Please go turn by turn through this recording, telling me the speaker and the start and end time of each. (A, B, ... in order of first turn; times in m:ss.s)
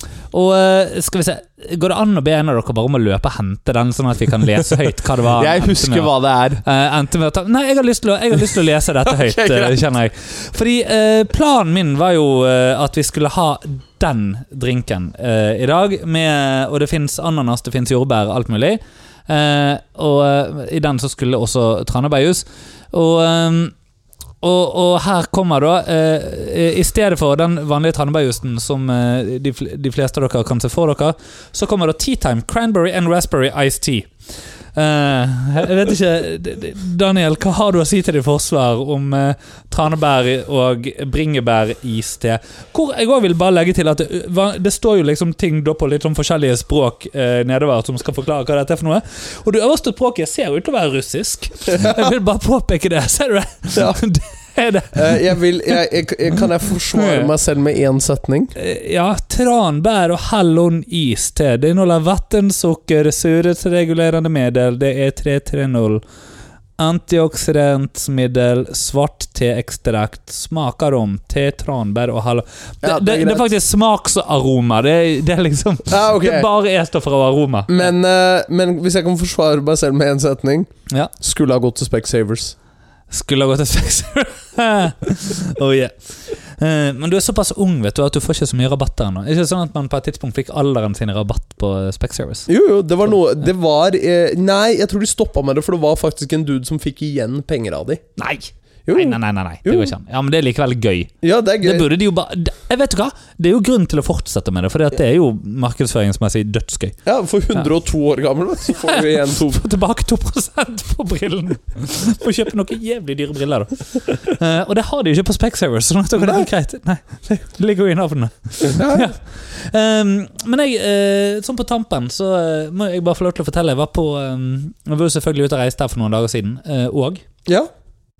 0:00.3-0:23.8 A
0:05.3-0:06.6 B
0:09.1-0:09.8 B
0:24.4-0:34.1 A
0:34.8-0:55.4 A
0:53.8-0:54.0 B
0:54.9-0:58.5 B
0:57.0-0:57.3 A
0:58.6-1:06.0 A
1:06.8-1:17.8 A
1:12.8-1:13.5 B
1:15.9-1:16.5 B
1:17.7-1:22.6 B
1:23.1-1:32.5 A
1:32.5-1:38.0 B
1:38.2-1:47.0 A
1:38.9-1:39.9 B
1:41.2-1:41.9 B
1:47.0-1:49.6 B
1:48.7-2:07.3 A
1:56.2-1:56.5 B
1:58.6-1:59.1 B